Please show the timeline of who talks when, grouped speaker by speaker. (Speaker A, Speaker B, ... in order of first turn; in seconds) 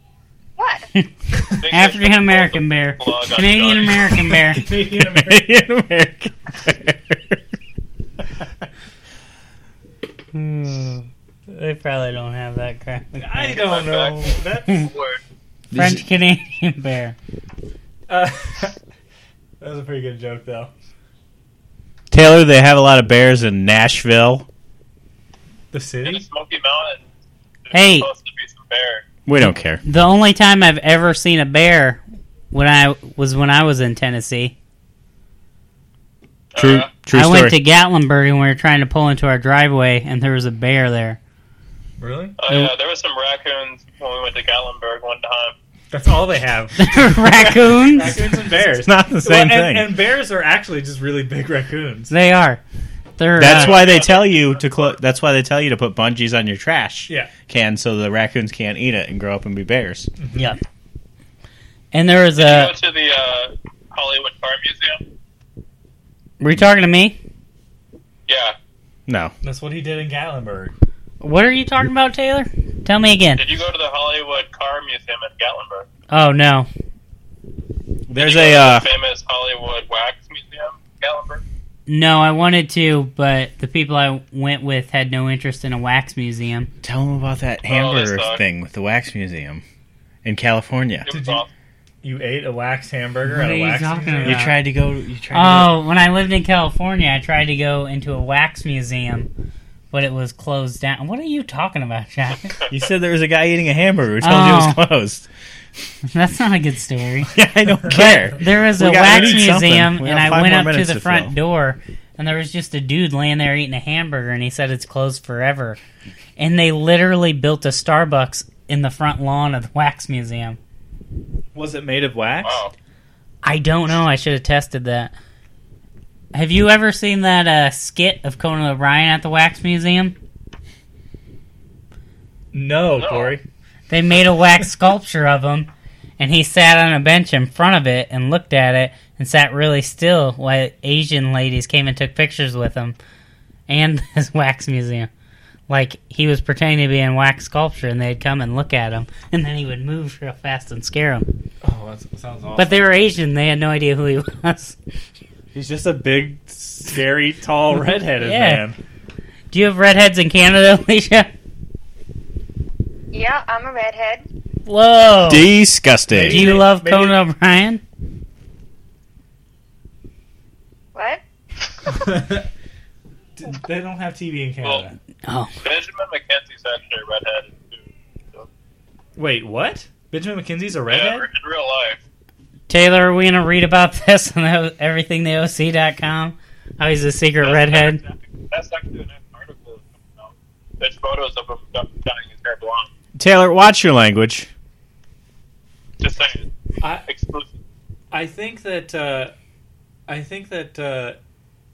Speaker A: 0.6-0.9, 163.1-164.2, 170.9-171.9
Speaker B: 0.9-4.6, 10.3-13.5, 15.7-17.1, 27.7-28.1, 29.8-34.5, 37.1-41.2, 46.8-48.2, 52.1-52.6, 53.2-53.8, 61.9-62.7, 66.4-67.2, 71.2-73.4, 76.1-76.7, 81.9-86.7, 93.2-94.6, 95.3-99.3, 99.9-102.6, 104.2-104.8, 106.1-107.3, 107.8-115.8, 116.4-120.6, 123.4-125.1, 126.3-130.2, 133.9-143.0, 143.7-145.1, 145.7-151.3, 152.6-154.8, 158.2-158.7, 159.5-161.3, 164.6-165.5, 166.3-167.8, 175.2-175.5, 182.7-188.0
Speaker C: 1.6-4.2, 13.5-15.2, 26.1-27.0, 27.6-29.1, 36.5-36.9, 42.4-45.5, 53.4-54.9, 62.4-65.0, 68.3-68.5, 73.4-75.8, 78.2-81.4, 87.7-88.4, 91.0-91.5, 122.4-122.7, 133.0-133.3, 175.6-178.5, 180.9-182.0, 187.4-192.9, 196.0-196.4, 197.1-197.5
Speaker D: 4.5-5.4, 13.1-14.9, 18.1-18.8, 19.6-20.7, 25.7-26.2, 42.0-42.4, 45.9-52.1, 57.1-57.3, 60.2-60.6, 69.4-70.7, 91.1-91.4, 92.0-94.5, 109.0-109.4, 121.5-122.6, 132.5-133.4, 151.6-152.8, 155.5-158.8, 166.1-167.2, 171.9-172.5, 173.4-175.0, 179.2-181.2, 198.1-199.3, 200.1-201.2
Speaker E: 4.6-7.4, 15.7-16.1, 22.1-24.4, 29.2-29.8, 36.6-37.6, 48.6-49.9, 53.4-60.1, 69.1-69.3, 78.1-78.8, 86.8-89.6, 90.2-91.1, 94.2-95.8, 102.7-105.3, 107.3-111.3, 165.3-166.5, 193.1-194.5